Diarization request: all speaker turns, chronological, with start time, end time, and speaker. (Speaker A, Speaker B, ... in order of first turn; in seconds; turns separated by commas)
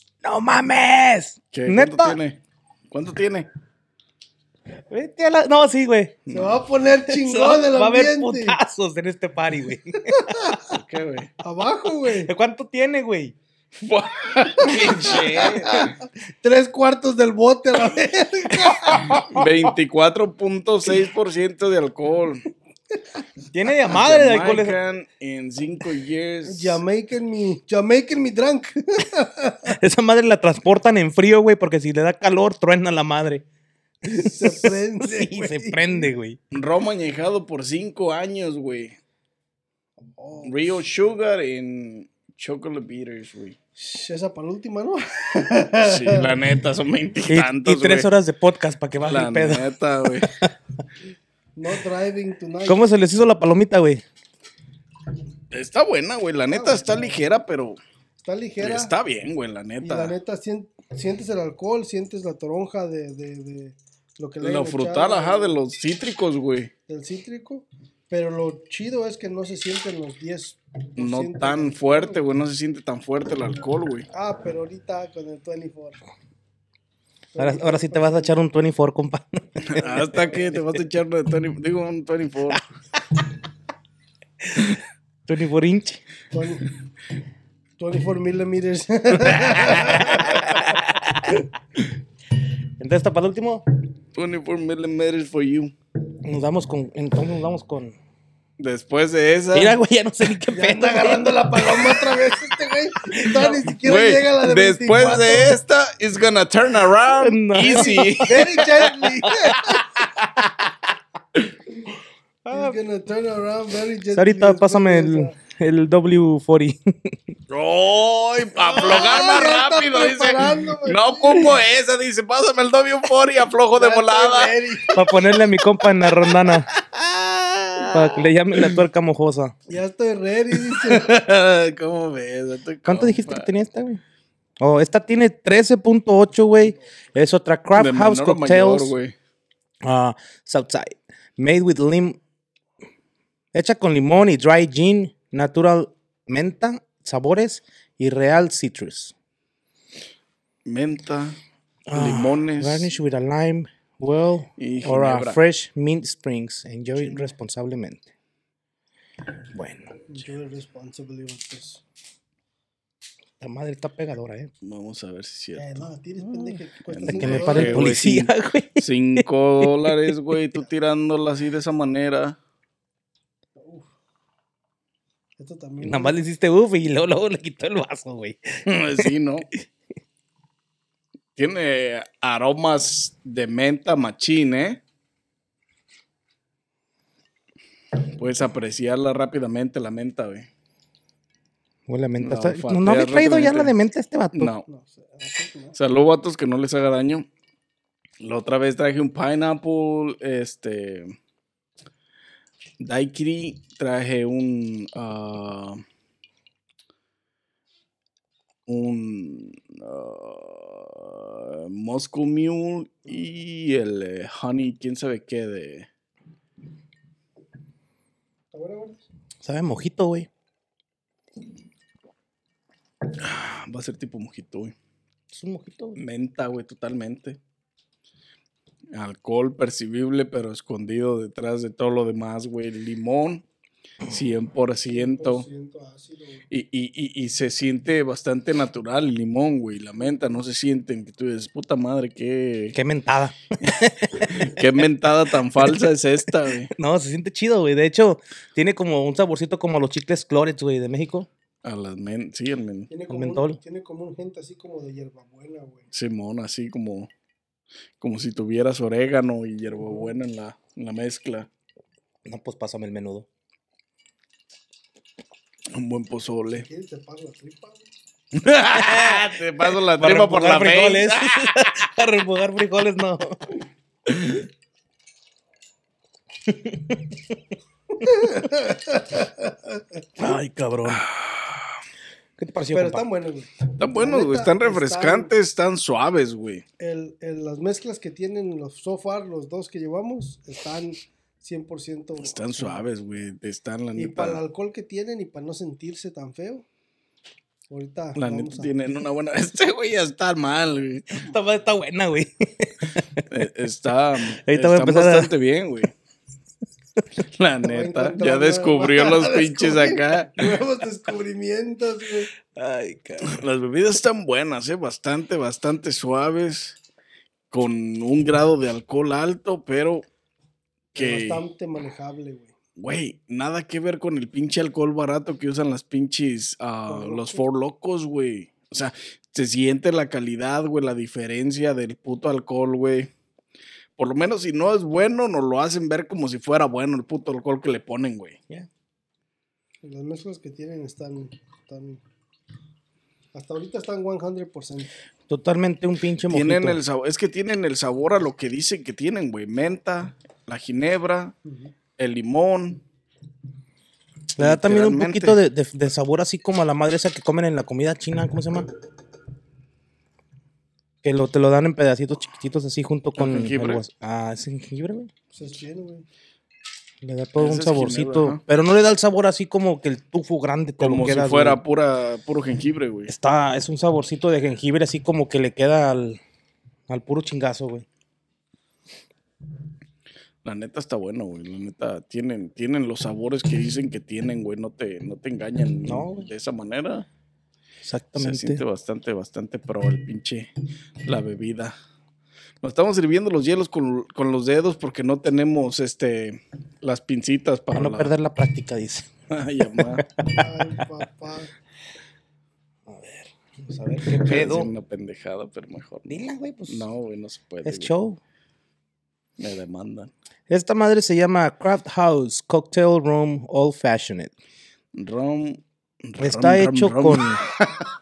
Speaker A: 0.2-2.2, Speaker B: 1.5-2.4, Speaker B: 2.9-3.5, Speaker A: 4.9-6.2, Speaker B: 6.2-6.6, Speaker C: 6.3-8.6, Speaker A: 7.1-10.8, Speaker C: 10.1-10.6, Speaker B: 10.7-11.3, Speaker C: 11.4-12.3, Speaker A: 12.1-13.3, Speaker B: 13.7-15.9, Speaker C: 14.6-19.2, Speaker A: 14.6-15.9, Speaker A: 18.9-19.4, Speaker B: 19.0-22.4, Speaker A: 23.5-24.8, Speaker B: 23.9-26.8, Speaker C: 26.4-29.7, Speaker A: 29.7-33.4, Speaker A: 34.0-36.4, Speaker C: 34.1-36.1, Speaker B: 36.5-39.0, Speaker C: 40.1-41.0, Speaker B: 40.4-43.6, Speaker C: 43.8-46.3, Speaker B: 45.8-48.1, Speaker A: 47.3-49.7, Speaker B: 49.0-50.3, Speaker A: 50.2-50.5, Speaker C: 51.5-52.8, Speaker A: 52.6-54.0, Speaker B: 55.5-57.8, Speaker C: 56.5-57.3, Speaker C: 58.2-58.9, Speaker B: 58.6-60.1, Speaker C: 59.8-65.6, Speaker B: 64.4-66.7, Speaker C: 66.9-72.2, Speaker B: 71.0-74.1, Speaker C: 74.1-76.0, Speaker C: 77.3-78.3, Speaker A: 77.4-80.0, Speaker B: 79.6-82.6, Speaker C: 80.0-80.3, Speaker A: 85.2-86.0, Speaker C: 86.3-86.7, Speaker C: 87.8-90.8, Speaker B: 89.5-90.8, Speaker A: 90.0-91.3, Speaker A: 92.8-93.6, Speaker B: 94.2-95.7, Speaker A: 96.2-98.0, Speaker B: 98.6-99.8, Speaker A: 99.5-102.2, Speaker C: 100.5-105.6, Speaker A: 103.1-103.6, Speaker B: 103.8-110.3, Speaker A: 107.2-110.4, Speaker C: 107.6-109.8, Speaker A: 112.4-112.8, Speaker C: 112.5-115.3, Speaker A: 114.1-117.3, Speaker B: 117.5-124.5, Speaker C: 118.5-121.6, Speaker C: 123.8-125.3, Speaker A: 124.9-126.7, Speaker B: 126.7-128.8, Speaker A: 127.9-129.5, Speaker C: 129.7-131.1, Speaker B: 130.7-133.5, Speaker A: 132.8-134.0, Speaker A: 134.6-138.9, Speaker C: 136.7-137.1, Speaker B: 137.7-139.1, Speaker A: 139.8-142.2, Speaker A: 143.5-149.1, Speaker B: 150.7-151.4, Speaker A: 151.9-158.1, Speaker B: 151.9-152.9, Speaker B: 154.6-155.4, Speaker C: 157.0-157.3, Speaker A: 159.5-160.1, Speaker C: 160.1-161.8, Speaker A: 163.4-164.5, Speaker B: 164.6-172.4, Speaker C: 165.6-167.9, Speaker A: 167.2-170.2, Speaker C: 173.6-173.9, Speaker C: 175.4-176.2, Speaker A: 175.8-179.1, Speaker B: 178.7-179.5, Speaker B: 181.3-184.8, Speaker B: 188.1-190.5, Speaker A: 191.9-194.5, Speaker B: 192.2-193.7, Speaker B: 194.3-194.6, Speaker C: 194.7-195.8, Speaker B: 195.7-197.3, Speaker B: 198.2-201.1, Speaker B: 202.8-205.8, Speaker B: 208.7-215.9, Speaker C: 218.5-219.0, Speaker A: 219.4-220.3, Speaker B: 223.2-224.7, Speaker A: 225.3-226.0, Speaker B: 225.9-227.4, Speaker B: 228.9-233.4, Speaker B: 234.1-235.4, Speaker C: 234.9-236.5, Speaker B: 236.5-242.8, Speaker A: 242.7-244.5, Speaker B: 244.2-246.7, Speaker A: 245.6-245.9, Speaker A: 246.4-251.3, Speaker B: 251.6-252.9, Speaker C: 252.9-255.9, Speaker A: 253.1-253.6, Speaker B: 255.9-257.1, Speaker B: 258.0-261.5, Speaker C: 259.8-260.1, Speaker A: 262.2-263.3, Speaker B: 265.7-266.6, Speaker C: 266.6-267.8, Speaker B: 268.3-271.7, Speaker A: 268.7-273.4, Speaker B: 274.1-274.4, Speaker A: 276.5-277.2, Speaker C: 278.0-280.0, Speaker A: 280.2-281.0, Speaker B: 280.9-281.7, Speaker A: 282.4-283.1, Speaker C: 282.7-285.3, Speaker B: 283.8-286.6, Speaker C: 286.8-292.8, Speaker B: 292.2-294.4, Speaker C: 293.9-296.6, Speaker C: 297.7-298.7, Speaker B: 298.1-301.1, Speaker A: 301.1-303.2, Speaker B: 303.3-305.9, Speaker A: 304.4-305.3, Speaker B: 307.2-310.4, Speaker C: 307.6-312.3, Speaker A: 312.5-313.4, Speaker B: 313.2-316.8, Speaker B: 317.5-320.1, Speaker B: 320.9-321.4, Speaker C: 320.9-322.5, Speaker B: 322.8-333.1, Speaker C: 326.9-327.4, Speaker B: 334.0-338.4, Speaker C: 339.8-342.0, Speaker C: 343.3-344.9, Speaker A: 345.3-346.8, Speaker B: 346.3-351.3, Speaker C: 351.4-351.7, Speaker B: 352.0-352.8, Speaker B: 354.4-355.4, Speaker A: 354.4-358.7, Speaker A: 361.0-365.1, Speaker B: 363.2-363.8, Speaker C: 365.3-366.1, Speaker A: 367.0-371.6, Speaker B: 367.4-368.4, Speaker B: 370.8-373.1, Speaker A: 373.1-376.2, Speaker A: 376.9-377.8, Speaker B: 380.4-387.1, Speaker A: 385.8-386.3, Speaker A: 387.8-388.6, Speaker B: 388.1-390.5, Speaker B: 391.0-391.7, Speaker B: 392.6-398.1, Speaker A: 397.7-399.1, Speaker B: 399.3-400.0, Speaker A: 399.6-400.8, Speaker C: 400.3-401.5, Speaker A: 402.9-404.7, Speaker B: 404.1-407.9, Speaker A: 406.1-406.8, Speaker A: 407.6-408.2, Speaker B: 409.4-410.1, Speaker A: 410.5-414.3, Speaker B: 414.9-417.9, Speaker A: 416.2-417.4